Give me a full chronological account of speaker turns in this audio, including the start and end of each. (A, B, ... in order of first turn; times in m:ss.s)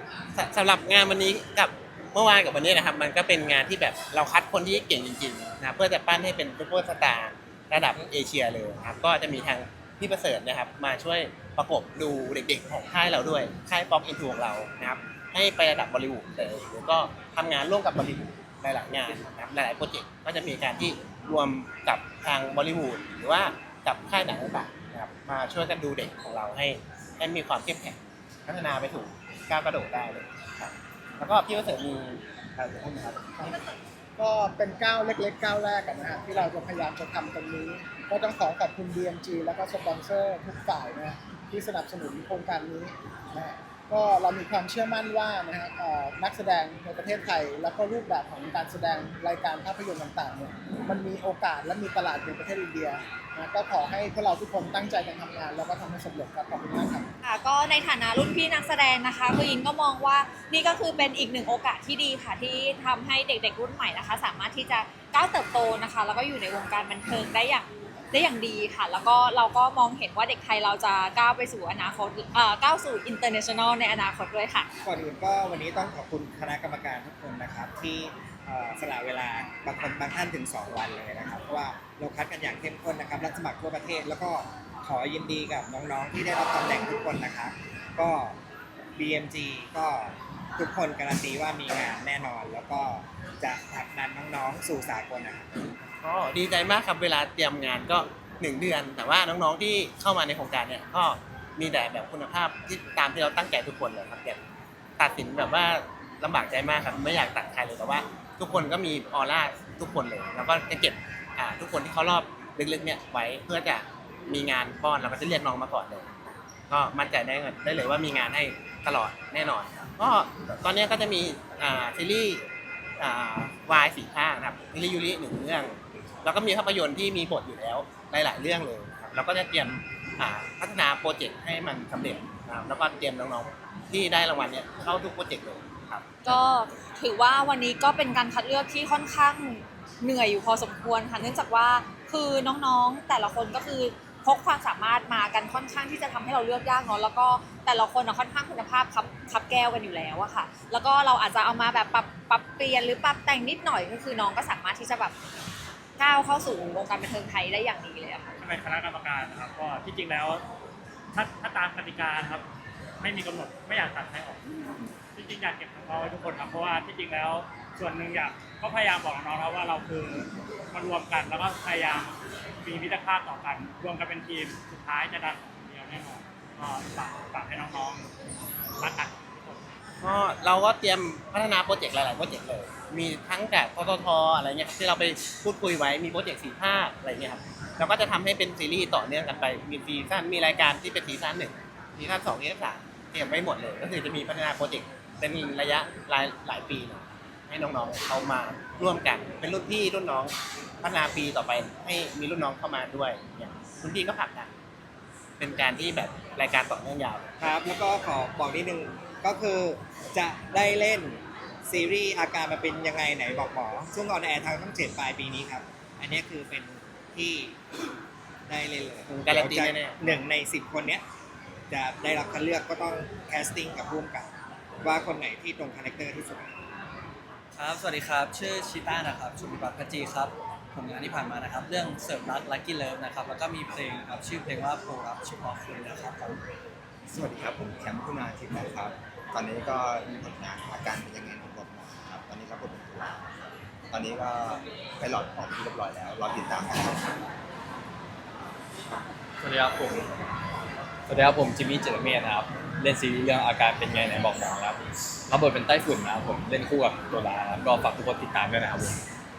0:00.4-0:33.3 A
0:34.2-0:57.1 B
0:57.2-1:14.7 C
1:14.8-1:28.4 D
1:29.0-1:35.5 D
1:35.9-1:44.4 A
1:45.0-2:02.5 A
2:03.0-2:16.0 A
2:16.2-2:35.1 C
2:36.0-2:38.4 C
2:38.4-2:40.4 E
2:41.1-2:42.4 E
2:43.0-2:44.4 E
2:45.2-2:58.1 E
2:58.8-2:59.6 E
3:00.0-3:24.5 A
3:25.4-3:27.3 A
3:27.4-3:37.6 D
3:38.5-3:41.0 D
3:39.1-3:40.0 A
3:41.7-3:44.3 D
3:44.8-3:46.6 D
3:47.6-3:56.4 F
3:57.1-4:03.3 G
4:03.9-4:07.1 G
4:09.4-4:10.1 H
4:11.1-4:19.0 H